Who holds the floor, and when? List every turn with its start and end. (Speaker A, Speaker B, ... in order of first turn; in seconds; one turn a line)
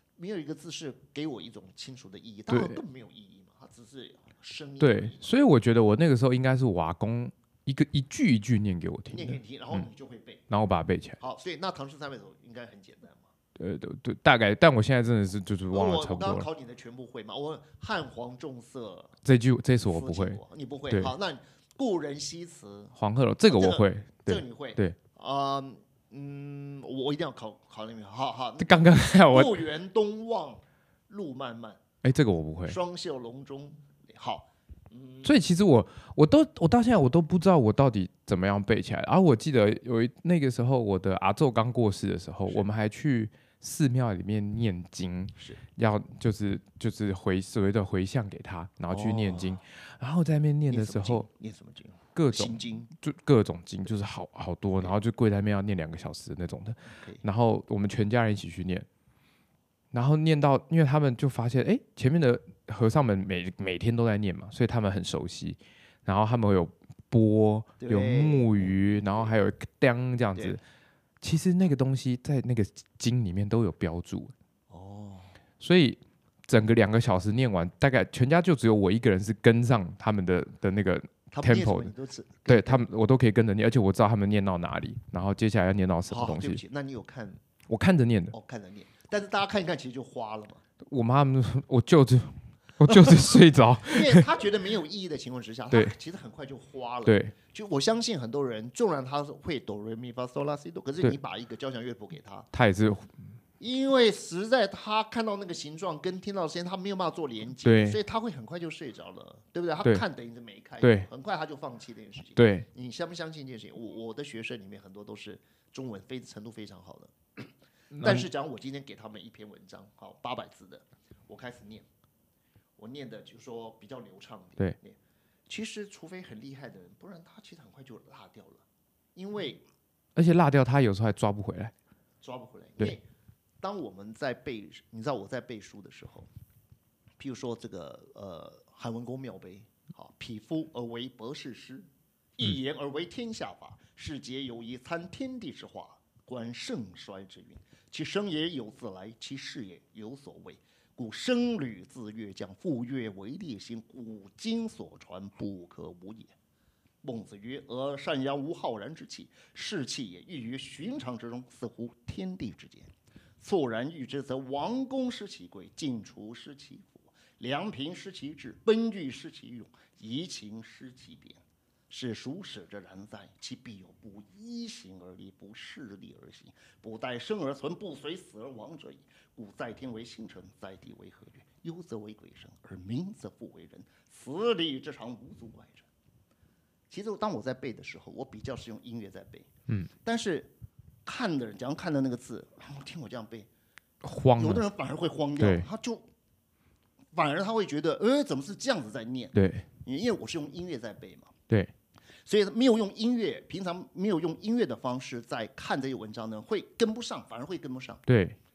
Speaker A: 0.2-5.3
Speaker B: 2.5-2.8
Speaker B: 4.8-9.8
Speaker A: 9.1-10.4
Speaker B: 10.5-11.2
Speaker A: 11.2-13.3
Speaker B: 13.6-16.5
Speaker A: 15.7-19.2
Speaker B: 19.2-21.1
Speaker A: 19.9-22.9
Speaker B: 22.9-25.0
Speaker A: 23.5-31.8
Speaker B: 28.6-29.6
Speaker B: 32.0-32.8
Speaker A: 32.6-35.4
Speaker B: 35.2-51.3
Speaker A: 48.9-49.6
Speaker A: 50.7-52.9
Speaker B: 52.1-58.9
Speaker A: 56.9-57.2
Speaker B: 59.9-70.6
Speaker A: 67.8-69.3
Speaker B: 71.2-74.3
Speaker A: 74.7-75.3
Speaker B: 75.6-81.9
Speaker A: 81.3-82.9
Speaker B: 82.5-86.6
Speaker A: 86.1-87.4
Speaker B: 87.7-88.3
Speaker A: 88.3-90.6
Speaker B: 90.8-94.3
Speaker A: 92.9-102.5
Speaker B: 97.0-97.3
Speaker B: 102.5-103.1
Speaker A: 103.6-121.8
Speaker B: 107.6-108.0
Speaker B: 110.8-111.1
Speaker B: 112.3-112.7
Speaker B: 117.9-118.3
Speaker A: 122.8-128.6
Speaker A: 129.1-129.6
Speaker B: 130.2-131.7
Speaker A: 132.2-133.0
Speaker A: 133.6-136.3
Speaker A: 137.2-156.3
Speaker A: 157.0-185.9
Speaker A: 186.9-190.5
Speaker A: 191.0-193.5
Speaker B: 194.0-194.6
Speaker A: 194.3-196.1
Speaker B: 195.4-195.7
Speaker A: 197.1-201.3
Speaker B: 199.3-199.7
Speaker A: 202.2-208.0
Speaker B: 208.1-208.4